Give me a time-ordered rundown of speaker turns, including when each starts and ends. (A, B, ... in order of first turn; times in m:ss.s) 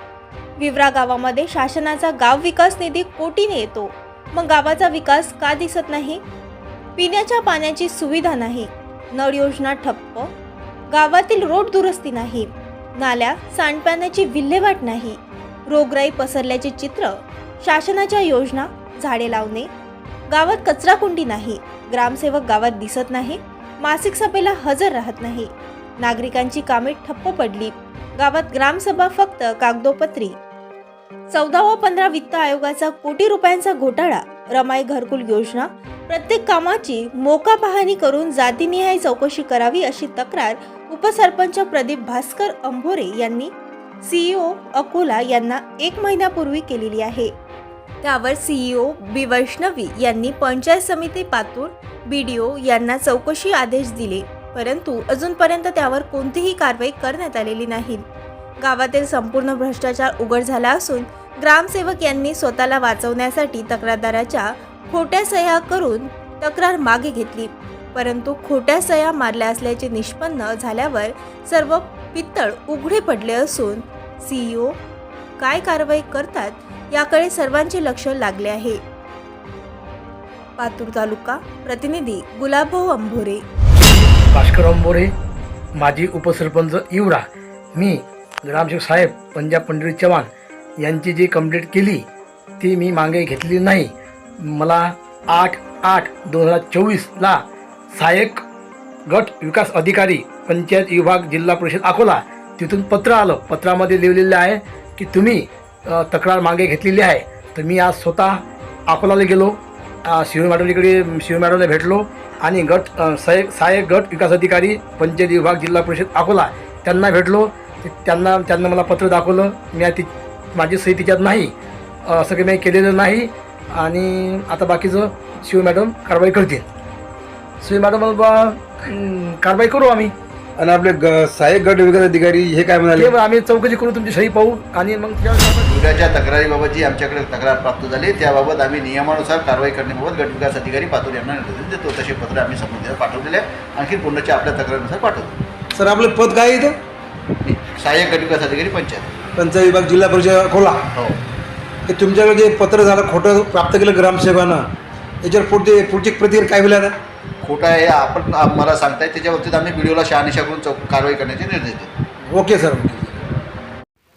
0:00.6-0:06.2 A
0:07.0-0:10.3 A
0:10.9-0:19.7 A
0:20.3-0:25.5 A
0:26.0-0:30.4 A
0:31.3-0:43.5 A
0:44.0-0:47.3 A
0:48.0-0:58.0 A
0:58.6-1:14.8 A
1:15.4-1:18.8 A
1:20.6-1:23.4 A
1:24.3-1:25.1 B
1:25.8-1:30.3 B
1:30.8-1:32.0 B
1:32.6-1:37.4 B
1:37.9-1:38.4 B
1:39.1-2:01.5 B
2:02.0-2:06.6 B
2:07.6-2:10.1 B
2:10.6-2:13.1 C
2:13.0-2:15.7 B
2:15.7-2:25.4 D
2:25.7-2:26.7 C
2:27.4-2:29.1 D
2:29.4-2:30.9 C
2:30.9-2:31.2 D
2:31.8-2:34.6 C
2:35.2-2:36.9 C
2:37.4-2:41.9 D
2:42.3-2:43.2 C